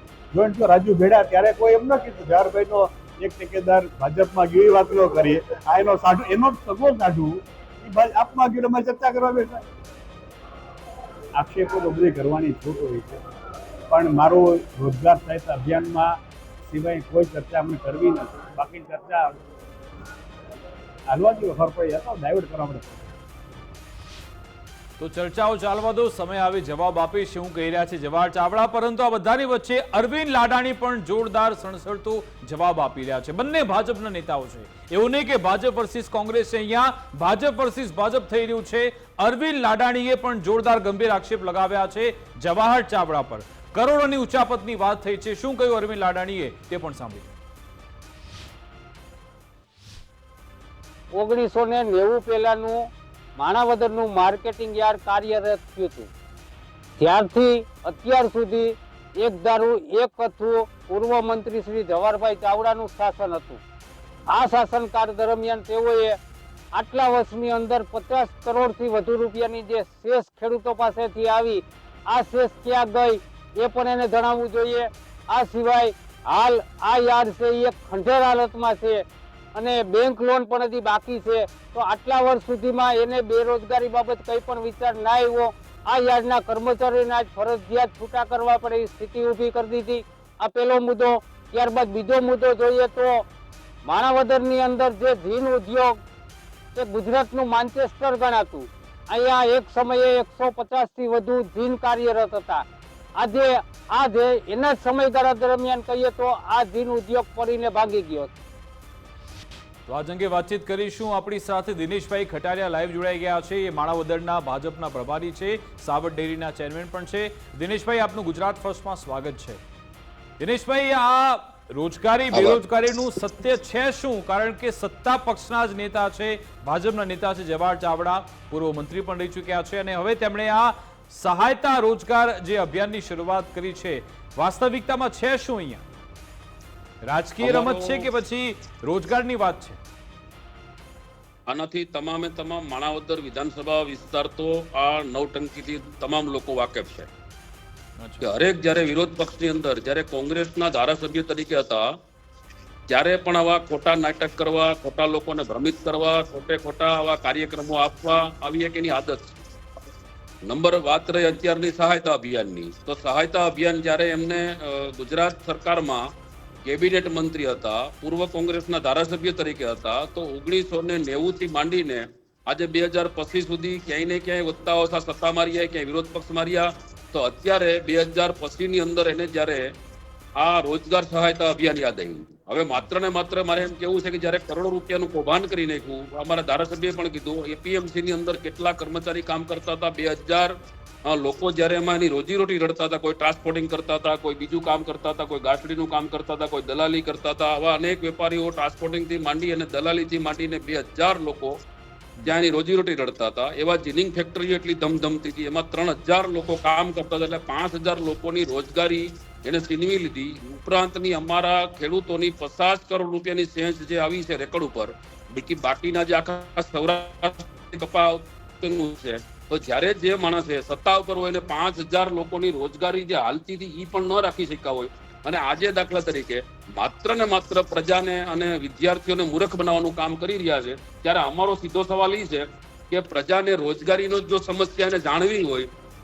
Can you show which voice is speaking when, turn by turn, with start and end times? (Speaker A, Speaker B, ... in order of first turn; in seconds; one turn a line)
Speaker A: 0.3-9.6
Speaker A: 11.3-13.2
Speaker A: 13.9-16.1
Speaker A: 16.7-19.4
Speaker A: 21.1-23.1
Speaker B: 25.0-47.3
Speaker C: 51.1-52.9
Speaker C: 53.4-56.1
Speaker C: 57.0-63.6
Speaker C: 64.3-66.2
Speaker C: 66.7-79.0
Speaker C: 79.5-93.2
Speaker C: 93.8-96.0
Speaker C: 96.7-102.6
Speaker C: 103.2-108.3
Speaker B: 109.9-119.6
Speaker B: 120.4-135.8
Speaker D: 122.3-122.6
Speaker B: 137.0-139.8
Speaker D: 137.4-138.1
Speaker D: 141.5-147.1
Speaker B: 148.0-148.3
Speaker D: 148.2-151.8
Speaker D: 152.9-159.3
Speaker D: 160.4-166.0
Speaker D: 166.6-179.7
Speaker D: 180.4-190.5
Speaker D: 191.1-201.5
Speaker D: 202.2-235.7